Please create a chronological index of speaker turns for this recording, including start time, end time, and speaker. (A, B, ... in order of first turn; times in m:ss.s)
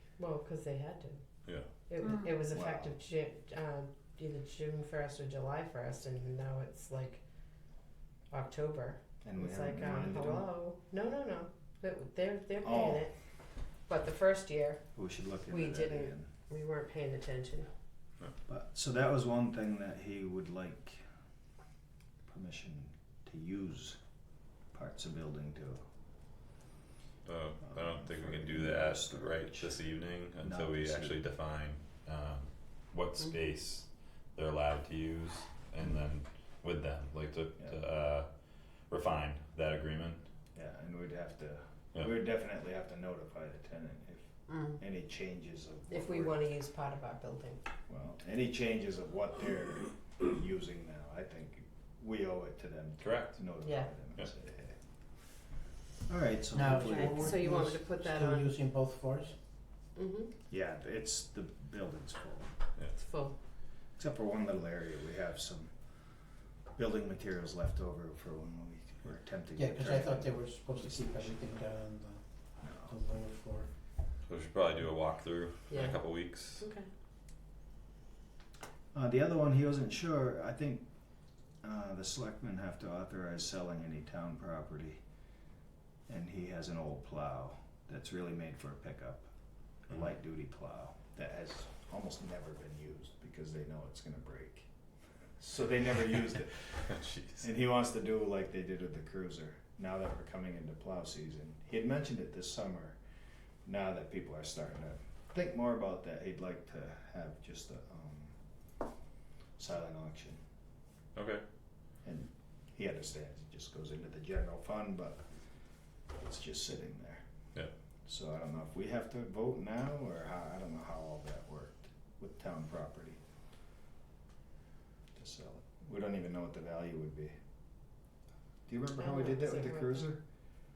0:00.2-0:01.2 A
0:01.9-0:07.2 A
0:02.5-0:02.9 B
0:08.3-0:13.1 A
0:09.2-0:10.5 B
0:12.6-0:13.0 B
0:13.9-0:14.8 A
0:15.0-0:16.3 B
0:15.5-0:17.7 A
0:18.5-0:21.0 B
0:22.2-0:24.0 B
0:24.7-0:25.8 B
0:27.3-0:38.3 C
0:27.7-0:29.8 B
0:30.4-0:31.2 B
0:38.9-0:40.2 C
0:40.6-0:46.4 B
0:44.5-0:44.8 A
0:45.9-0:47.6 A
0:47.9-0:54.8 B
0:53.0-0:53.4 C
0:53.6-0:53.9 A
0:56.1-0:57.4 B
0:56.5-0:59.3 D
0:56.7-0:58.6 A
1:00.0-1:00.3 A
1:00.5-1:02.5 B
1:03.0-1:03.4 A
1:04.0-1:05.7 B
1:06.8-1:11.2 B
1:09.5-1:13.7 D
1:12.6-1:13.0 B
1:14.2-1:16.6 C
1:15.7-1:16.9 A
1:18.9-1:20.8 B
1:21.6-1:25.0 B
1:26.1-1:29.3 B
1:29.9-1:34.7 B
1:35.4-1:36.7 B
1:36.9-1:37.4 C
1:37.4-1:43.0 B
1:43.6-1:48.3 B
1:49.6-1:50.4 B
1:51.1-1:51.4 C
1:52.0-1:55.2 B
1:56.2-1:57.2 B
1:58.1-2:03.2 B
2:05.1-2:07.3 B
2:08.7-2:10.2 B
2:09.0-2:10.1 A